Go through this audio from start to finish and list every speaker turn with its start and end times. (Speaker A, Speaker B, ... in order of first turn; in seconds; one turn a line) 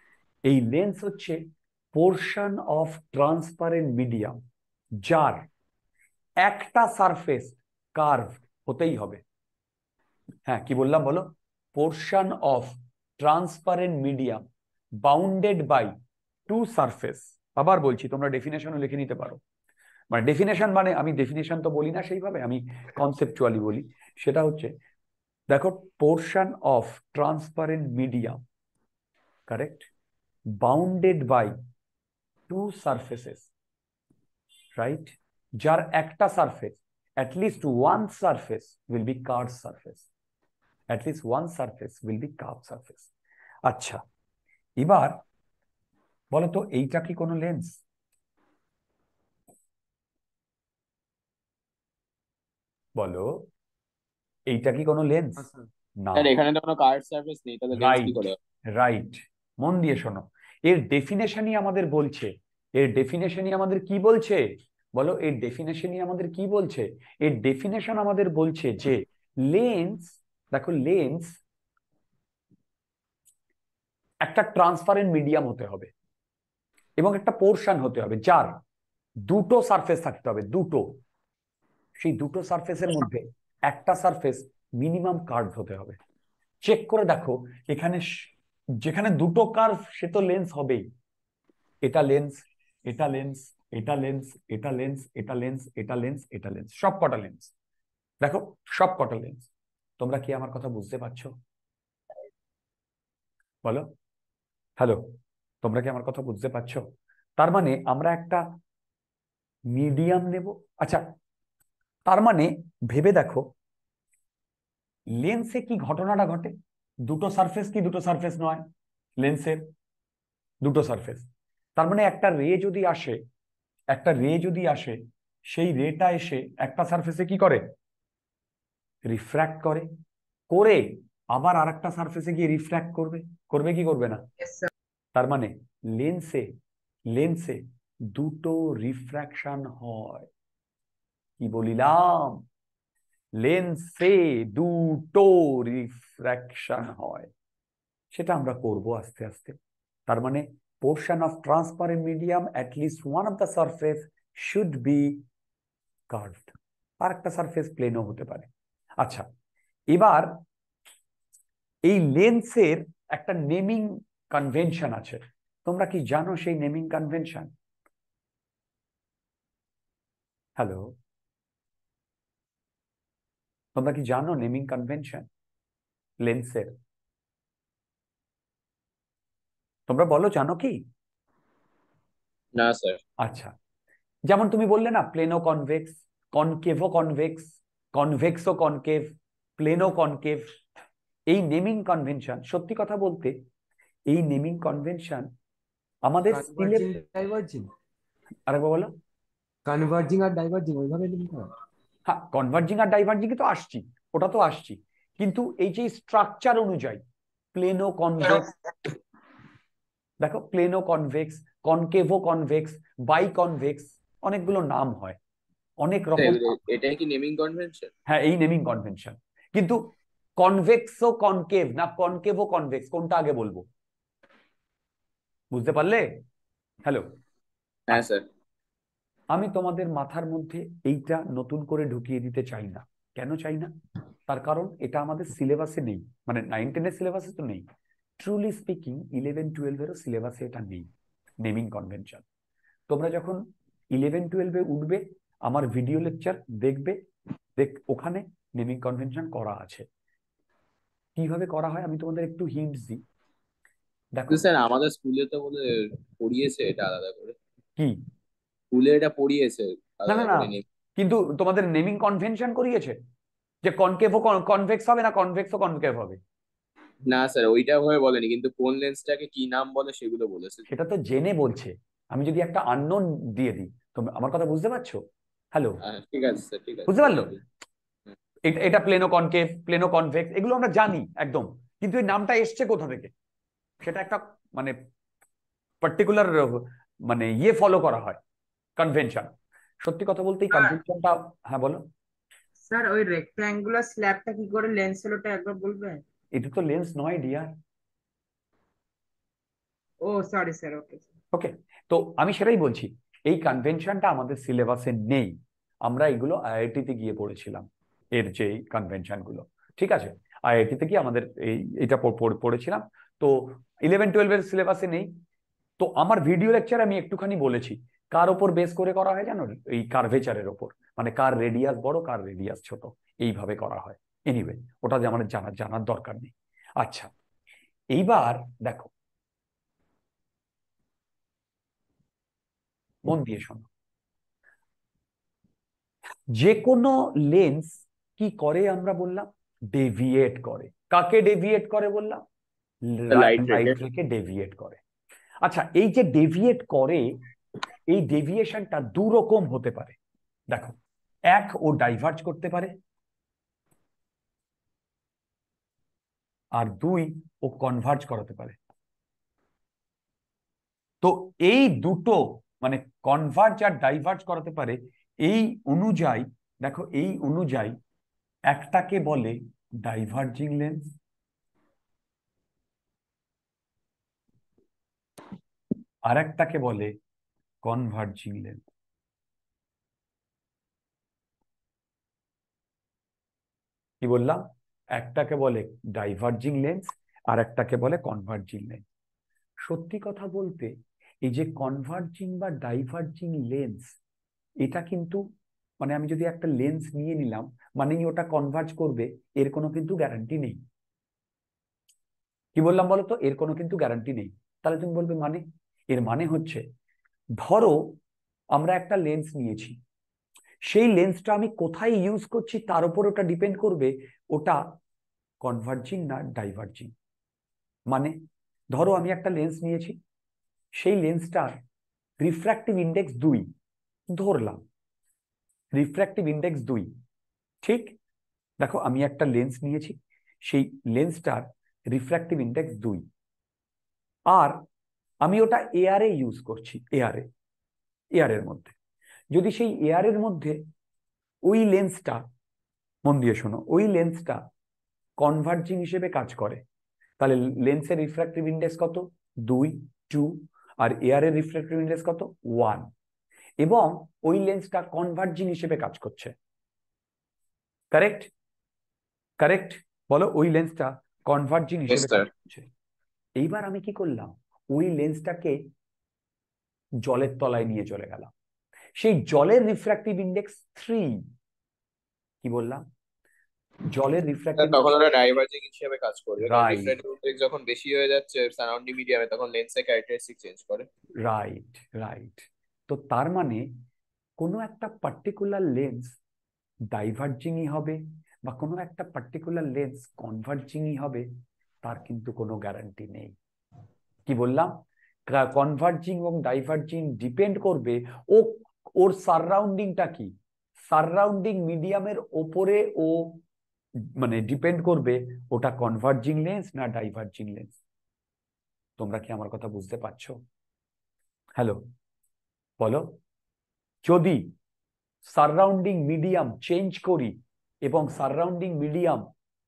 Speaker A: 0.5-4.4
Speaker A: 5.0-5.5
Speaker A: 6.4-9.2
Speaker A: 10.5-14.4
Speaker A: 15.0-15.9
Speaker A: 16.5-19.4
Speaker A: 20.1-24.7
Speaker A: 25.5-28.4
Speaker A: 29.5-29.9
Speaker A: 30.5-31.6
Speaker A: 32.5-33.5
Speaker A: 34.8-40.0
Speaker A: 40.9-43.1
Speaker A: 43.6-44.0
Speaker A: 44.8-45.2
Speaker A: 46.3-47.8
Speaker A: 53.0-53.3
Speaker A: 54.5-55.4
Speaker A: 56.0-56.3
Speaker B: 56.1-58.3
Speaker A: 57.7-64.4
Speaker A: 65.0-71.4
Speaker A: 74.2-75.9
Speaker A: 77.0-78.6
Speaker A: 79.2-81.0
Speaker A: 82.0-86.0
Speaker A: 86.6-90.8
Speaker A: 91.8-97.5
Speaker A: 98.2-99.5
Speaker A: 100.0-101.3
Speaker A: 104.8-106.8
Speaker A: 107.4-108.4
Speaker A: 109.7-111.0
Speaker A: 112.1-113.5
Speaker A: 115.2-116.5
Speaker A: 117.0-118.6
Speaker A: 119.2-119.6
Speaker A: 120.6-123.2
Speaker A: 123.9-125.0
Speaker A: 125.5-127.6
Speaker A: 129.1-129.9
Speaker A: 130.5-134.2
Speaker C: 134.4-134.7
Speaker A: 135.1-136.5
Speaker A: 137.1-140.3
Speaker A: 141.4-142.4
Speaker A: 143.4-147.3
Speaker A: 148.1-149.6
Speaker A: 150.1-155.2
Speaker A: 156.1-158.5
Speaker A: 159.9-160.4
Speaker A: 161.8-167.5
Speaker A: 170.6-170.9
Speaker A: 173.8-175.3
Speaker A: 176.2-176.7
Speaker A: 179.9-180.8
Speaker B: 182.5-183.0
Speaker A: 183.2-183.5
Speaker A: 184.3-190.6
Speaker A: 191.3-193.3
Speaker A: 194.1-195.3
Speaker A: 196.0-197.0
Speaker D: 196.3-197.7
Speaker A: 198.5-198.9
Speaker D: 199.7-201.5
Speaker A: 202.1-207.0
Speaker A: 207.5-208.5
Speaker A: 210.2-215.2
Speaker A: 215.8-216.5
Speaker B: 216.2-217.9
Speaker A: 218.1-223.6
Speaker A: 225.5-226.2
Speaker B: 227.9-228.2
Speaker A: 229.3-233.7
Speaker A: 234.3-237.6
Speaker A: 238.2-240.9
Speaker A: 241.4-242.2
Speaker A: 242.9-247.0
Speaker A: 247.6-249.8
Speaker A: 251.2-253.0
Speaker A: 254.1-254.5
Speaker B: 254.3-257.4
Speaker B: 258.7-260.6
Speaker A: 260.1-263.0
Speaker A: 263.6-266.2
Speaker B: 267.1-270.6
Speaker A: 270.7-275.0
Speaker A: 275.5-275.8
Speaker B: 275.8-277.4
Speaker A: 276.9-277.3
Speaker A: 278.4-283.1
Speaker A: 283.8-284.7
Speaker A: 285.8-288.2
Speaker A: 288.8-291.8
Speaker C: 290.5-290.8
Speaker C: 292.7-296.0
Speaker A: 296.3-297.5
Speaker C: 300.0-301.1
Speaker A: 301.3-315.1
Speaker A: 315.8-327.1
Speaker A: 327.9-328.9
Speaker A: 333.1-333.7
Speaker A: 336.3-342.2
Speaker A: 342.9-344.8
Speaker B: 343.1-343.8
Speaker A: 345.4-347.0
Speaker A: 347.9-350.0
Speaker A: 351.3-352.7
Speaker A: 356.5-358.6
Speaker A: 361.0-367.8
Speaker A: 368.5-370.9
Speaker A: 376.1-376.9
Speaker A: 377.6-378.6
Speaker A: 384.0-388.8
Speaker A: 389.6-394.0
Speaker A: 394.6-395.2
Speaker A: 395.8-400.6
Speaker A: 402.6-406.6
Speaker A: 407.4-407.8
Speaker A: 408.5-409.8
Speaker A: 410.7-414.6
Speaker A: 415.4-416.9
Speaker A: 417.9-418.1
Speaker A: 418.7-419.9
Speaker A: 420.8-421.6
Speaker A: 422.2-423.5
Speaker A: 424.1-424.6
Speaker A: 425.7-426.9
Speaker A: 427.6-428.0
Speaker A: 428.6-433.1
Speaker A: 434.3-434.6
Speaker A: 435.2-437.3
Speaker A: 438.1-438.7
Speaker A: 439.3-440.6
Speaker A: 441.4-442.2
Speaker A: 443.0-444.4
Speaker A: 445.2-446.6
Speaker A: 447.2-452.9
Speaker A: 453.6-456.3
Speaker A: 457.9-458.3
Speaker A: 459.4-462.7
Speaker B: 461.9-462.3
Speaker A: 463.4-465.6
Speaker A: 467.0-468.3
Speaker A: 469.0-471.2
Speaker A: 472.4-472.8
Speaker A: 473.9-475.0
Speaker B: 474.6-480.9
Speaker A: 476.4-477.0
Speaker A: 481.2-483.7
Speaker A: 484.4-486.1
Speaker A: 486.9-491.3
Speaker A: 491.8-493.3
Speaker A: 494.3-494.8
Speaker A: 495.3-500.3
Speaker A: 500.9-503.4
Speaker A: 504.2-507.8
Speaker A: 509.0-510.4
Speaker A: 511.6-511.8
Speaker A: 512.8-513.2
Speaker A: 514.0-514.5
Speaker A: 515.2-519.3